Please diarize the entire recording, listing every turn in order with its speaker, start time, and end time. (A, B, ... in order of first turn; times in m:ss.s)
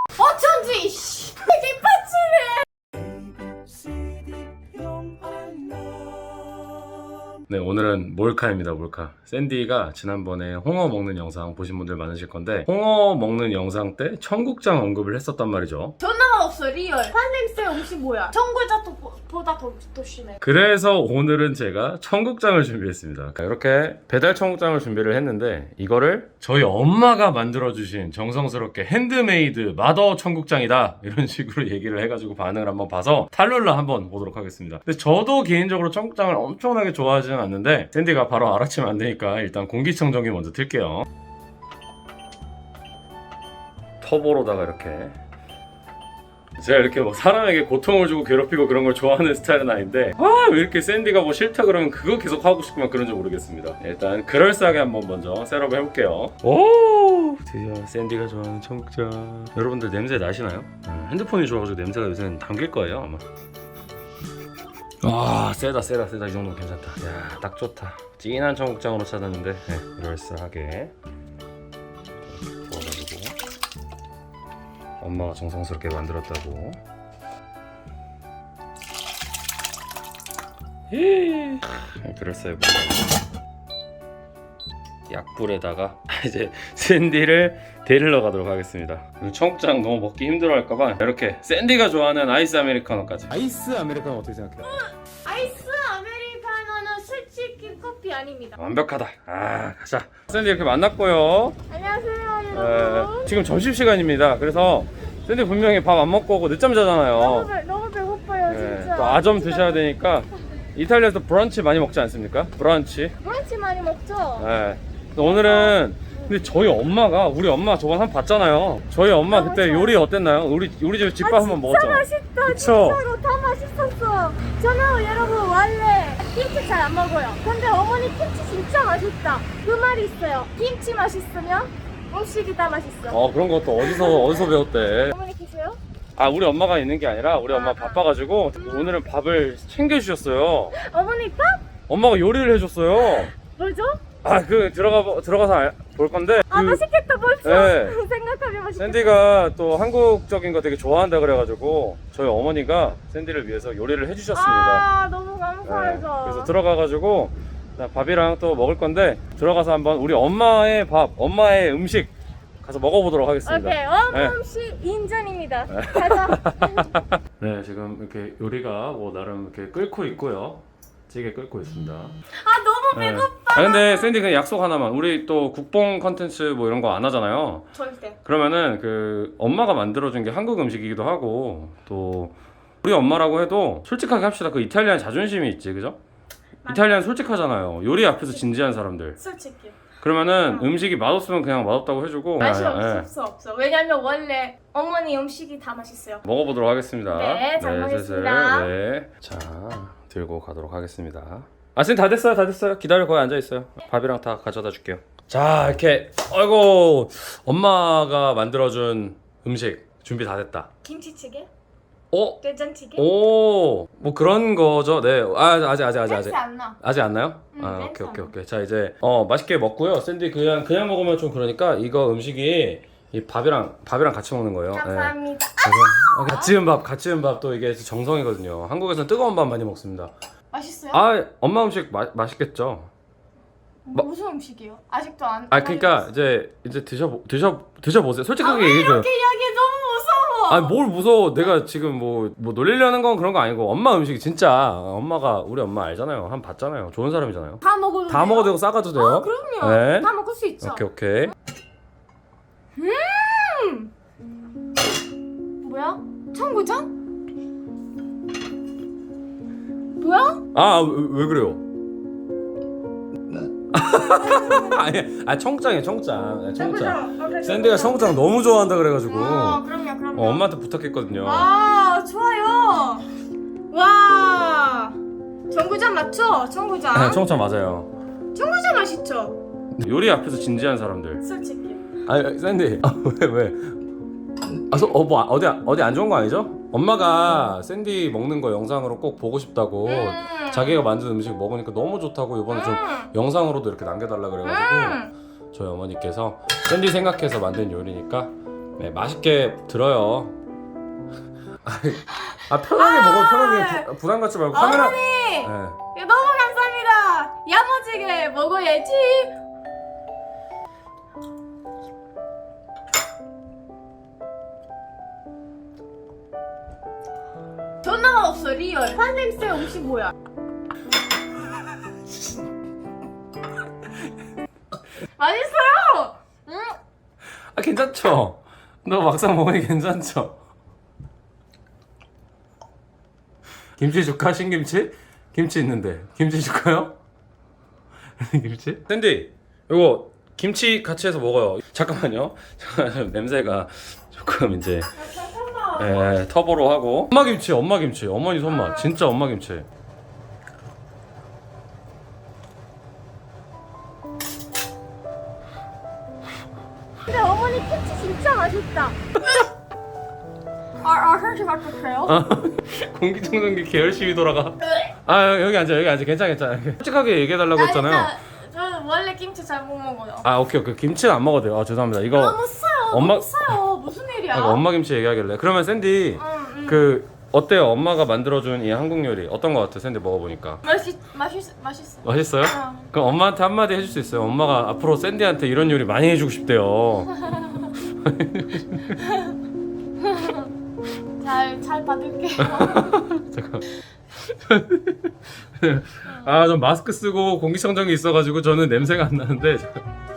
0:00.2-0:02.6 A
0:07.5-0:16.0 B
0:16.0-0:20.4 A
0:20.4-0:41.0 B
0:44.0-0:45.2 B
0:46.6-1:03.2 B
1:05.0-1:10.9 B
1:12.3-1:13.4 B
1:15.0-1:16.8 B
1:20.9-1:23.2 B
1:25.1-1:34.7 B
1:34.6-1:38.6 A
1:38.6-1:41.6 B
1:41.7-1:43.4 A
1:42.5-1:47.5 B
1:47.1-1:49.8 A
1:48.5-1:53.1 B
1:53.2-1:54.5 A
1:54.4-2:03.0 B
1:55.2-1:56.3 A
1:59.1-2:00.0 A
2:01.2-2:13.2 A
2:13.1-2:15.2 B
2:13.8-2:14.5 A
2:15.0-2:15.8 A
2:16.2-2:20.7 B
2:17.5-2:18.0 A
2:18.6-2:19.0 A
2:20.7-2:21.7 A
2:21.9-2:23.3 B
2:23.0-2:24.0 A
2:24.2-2:26.8 B
2:26.5-2:29.3 A
2:27.4-2:28.0 B
2:28.8-2:34.8 B
2:34.3-2:36.5 A
2:35.7-2:44.4 B
2:43.4-2:47.0 A
2:45.7-2:52.2 B
2:52.4-2:54.1 A
2:52.9-2:57.7 B
2:57.7-2:58.2 A
2:58.2-3:06.0 B
3:06.6-3:07.1 A
3:06.7-3:09.2 B
3:08.1-3:08.4 A
3:09.2-3:09.8 A
3:10.0-3:13.1 B
3:10.5-3:10.7 A
3:12.4-3:16.2 A
3:16.2-3:30.7 B
3:17.1-3:18.7 A
3:30.8-3:31.5 A
3:32.1-3:32.4 B
3:32.4-3:33.1 A
3:33.0-3:50.1 B
3:36.0-3:36.8 A
3:37.5-3:38.3 A
3:44.7-3:46.5 A
3:50.5-3:51.0 A
3:50.9-3:52.9 B
3:53.8-3:56.1 A
3:55.5-3:59.1 B
3:58.4-4:00.8 A
4:00.5-4:10.1 B
4:07.6-4:10.8 A
4:10.6-4:11.3 B
4:12.8-4:13.9 A
4:15.6-4:16.9 A
4:20.0-4:20.4 A
4:20.5-4:21.6 B
4:23.4-4:31.5 B
4:23.9-4:24.8 A
4:26.6-4:28.2 A
4:29.1-4:30.5 A
4:31.2-4:33.1 A
4:33.7-4:35.0 A
4:35.5-4:37.2 A
4:36.9-4:37.9 B
4:38.3-4:39.4 A
4:39.8-4:41.2 B
4:41.2-4:41.8 A
4:42.1-4:43.8 B
4:44.7-5:00.4 B
4:49.9-4:50.8 A
4:52.5-4:53.1 A
4:54.4-4:55.1 A
5:01.6-5:05.8 B
5:02.2-5:03.9 A
5:04.5-5:09.4 A
5:17.8-5:20.1 A
5:25.2-5:26.8 A
5:27.5-5:30.4 B
5:33.8-5:37.0 B
5:38.2-5:45.0 B
5:45.0-5:46.1 A
5:45.8-5:49.7 B
5:48.5-5:49.0 A
5:57.0-5:59.4 A
6:00.8-6:02.2 A
6:02.1-6:08.1 B
6:04.6-6:04.9 A
6:07.6-6:10.3 A
6:10.2-6:13.6 B
6:12.1-6:14.6 A
6:14.3-6:20.6 B
6:16.2-6:16.9 A
6:20.6-6:22.9 A
6:22.0-6:27.2 B
6:27.3-6:27.6 A
6:27.7-6:29.0 B
6:29.0-6:29.3 A
6:30.0-6:30.5 A
6:31.2-6:33.1 A
6:32.4-6:33.6 B
6:34.2-6:39.8 B